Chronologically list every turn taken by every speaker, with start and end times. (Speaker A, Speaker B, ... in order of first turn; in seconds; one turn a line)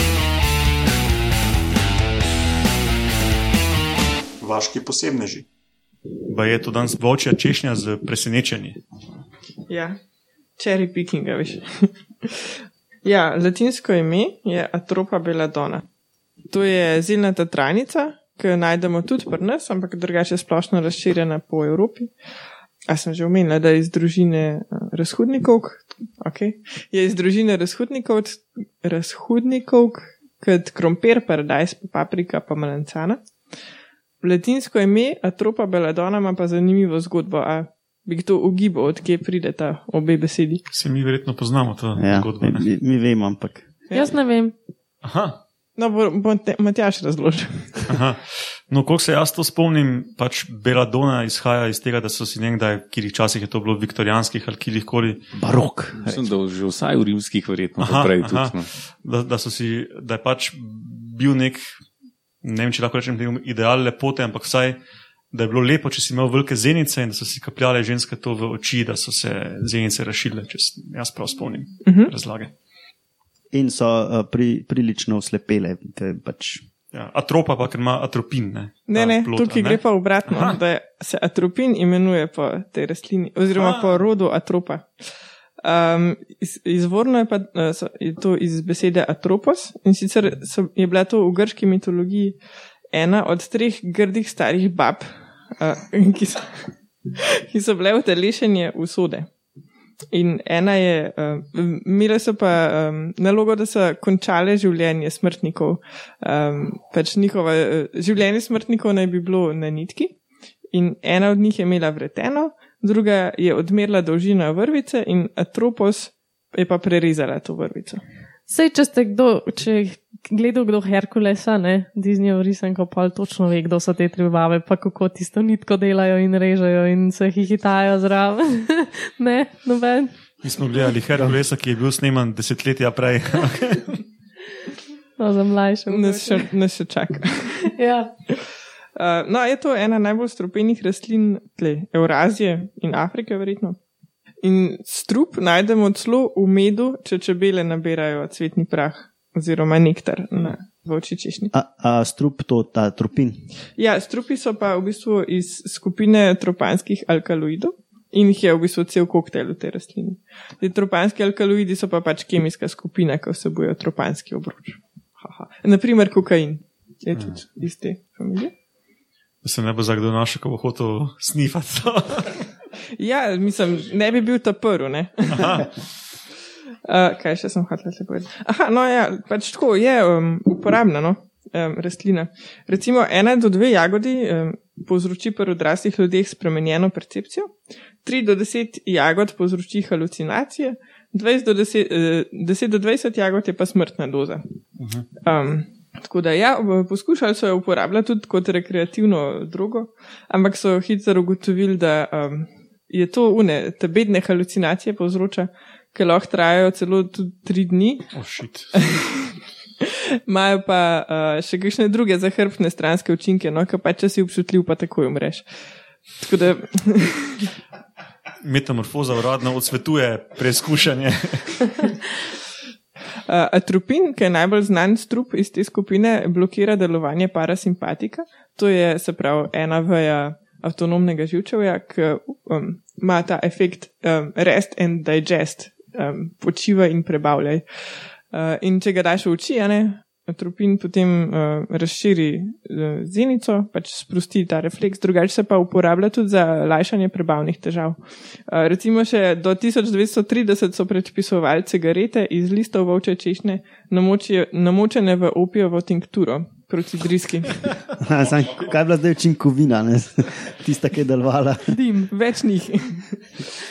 Speaker A: 4.4-5.5
Speaker A: 6.3-8.8
Speaker B: 9.7-10.0
Speaker B: 10.6-15.8
Speaker B: 16.5-22.1
Speaker B: 22.9-33.2
Speaker B: 34.2-40.6
Speaker A: 40.7-42.7
Speaker C: 42.0-43.7
Speaker D: 43.9-44.5
Speaker A: 45.0-45.4
Speaker B: 45.8-47.9
Speaker A: 47.9-55.2
Speaker C: 55.4-56.2
Speaker E: 56.0-58.7
Speaker A: 57.8-61.7
Speaker A: 62.4-64.8
Speaker A: 65.3-72.5
Speaker B: 71.8-72.1
Speaker C: 73.5-76.6
Speaker A: 76.9-80.6
Speaker B: 78.9-92.4
Speaker A: 83.6-83.9
Speaker B: 92.9-99.3
Speaker B: 100.1-110.2
Speaker B: 110.7-118.0
Speaker D: 118.5-130.2
Speaker A: 130.4-134.0
Speaker D: 135.2-136.5
Speaker B: 135.9-137.7
Speaker D: 137.7-138.2
Speaker B: 138.9-143.8
Speaker B: 144.4-151.5
Speaker C: 151.5-153.4
Speaker B: 153.8-168.5
Speaker A: 169.4-172.4
Speaker B: 173.0-175.7
Speaker A: 175.3-175.7
Speaker B: 176.8-194.4
Speaker A: 194.8-195.1
Speaker B: 195.2-208.1
Speaker A: 208.1-209.0
Speaker B: 208.7-215.6
Speaker B: 216.2-217.5
Speaker A: 218.4-221.9
Speaker B: 223.3-257.6
Speaker C: 258.0-261.8
Speaker D: 261.7-262.1
Speaker B: 262.1-263.3